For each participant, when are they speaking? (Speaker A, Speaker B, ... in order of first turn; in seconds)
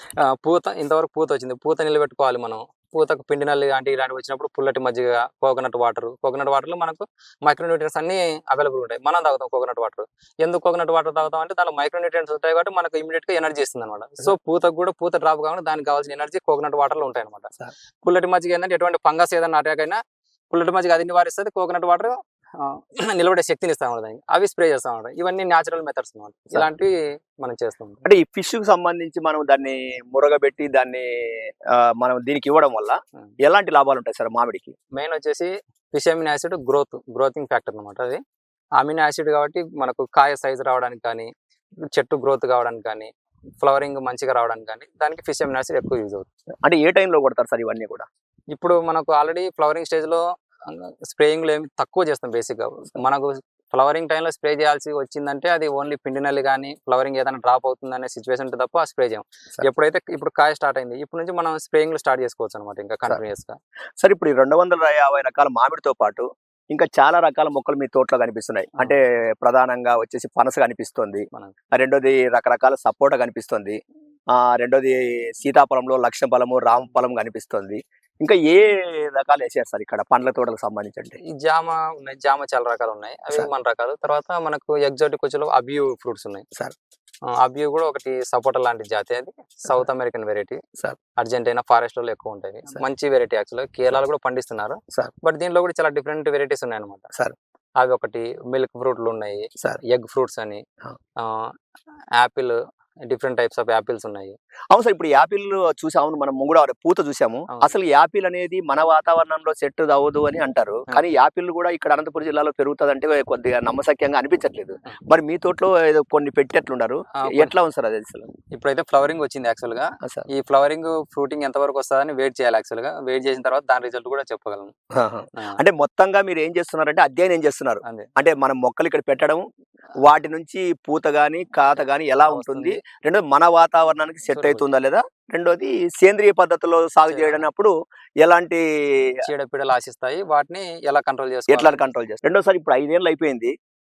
Speaker A: 0.2-17.5, 18.0-20.0, 20.5-28.0, 34.9-38.2, 38.8-41.3, 42.0-43.1, 43.6-46.3, 48.5-63.6, 81.2-86.4, 87.3-90.6, 91.2-97.1, 97.8-100.6, 101.2-101.5, 102.2-104.3, 117.1-117.5, 118.5-124.7, 132.2-132.8, 134.3-134.7, 137.1-137.4, 139.2-141.8
Speaker B: 28.0-34.8, 46.6-48.1, 64.0-73.8, 74.3-81.2, 104.7-118.3, 124.9-129.4, 130.0-139.2, 141.5-143.5